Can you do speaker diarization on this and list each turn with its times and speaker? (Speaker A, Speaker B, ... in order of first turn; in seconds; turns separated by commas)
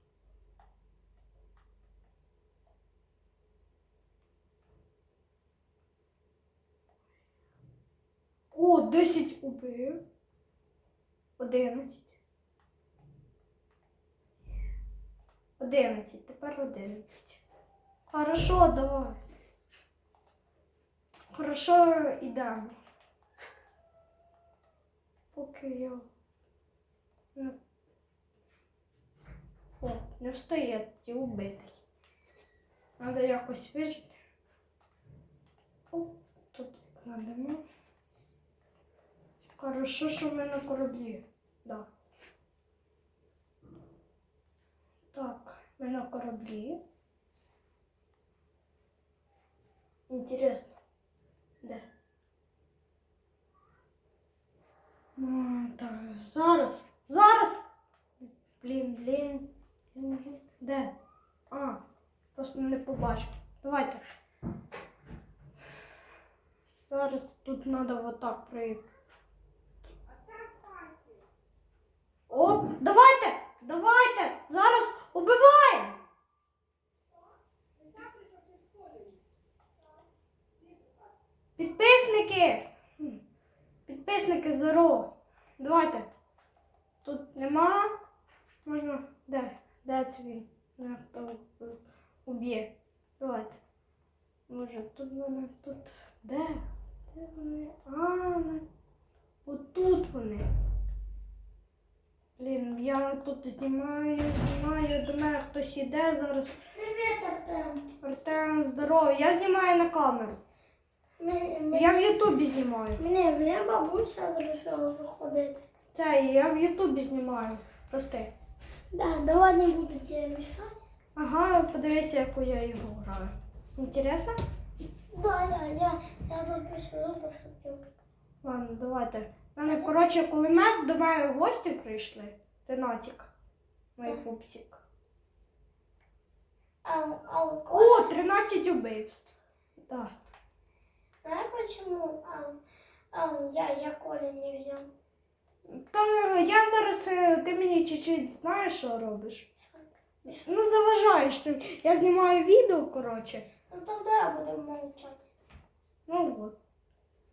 Speaker A: 8.5-10.0, Speaker A: 11.4-12.2, Speaker A: 15.6-17.4, Speaker A: 18.1-19.2, Speaker A: 21.3-22.8, Speaker A: 25.3-26.1, Speaker A: 29.8-31.8, Speaker A: 33.0-34.2, Speaker A: 35.9-37.6, Speaker A: 39.6-41.9, Speaker A: 45.1-46.8, Speaker A: 50.1-50.8, Speaker A: 51.6-51.9, Speaker A: 55.1-57.6, Speaker A: 58.6-61.0, Speaker A: 61.5-61.8, Speaker A: 62.3-64.0, Speaker A: 66.9-68.9, Speaker A: 72.3-76.0, Speaker A: 81.6-83.2, Speaker A: 83.8-86.1, Speaker A: 87.0-88.0, Speaker A: 88.6-93.6, Speaker A: 94.5-98.7, Speaker A: 99.4-100.5, Speaker A: 102.4-106.6, Speaker B: 106.7-107.9, Speaker A: 108.0-110.4, Speaker B: 111.2-112.1, Speaker A: 111.7-113.0, Speaker B: 113.0-115.6, Speaker A: 115.9-118.3, Speaker B: 118.9-120.8, Speaker A: 121.2-124.4, Speaker B: 125.1-127.9, Speaker A: 128.4-133.3, Speaker B: 129.7-129.9, Speaker A: 133.9-134.8, Speaker B: 136.8-138.1, Speaker A: 137.7-139.3, Speaker A: 139.9-140.1, Speaker B: 141.2-142.6, Speaker B: 143.1-144.9, Speaker A: 145.7-149.5, Speaker A: 150.2-153.5, Speaker B: 153.7-155.3, Speaker A: 156.1-156.6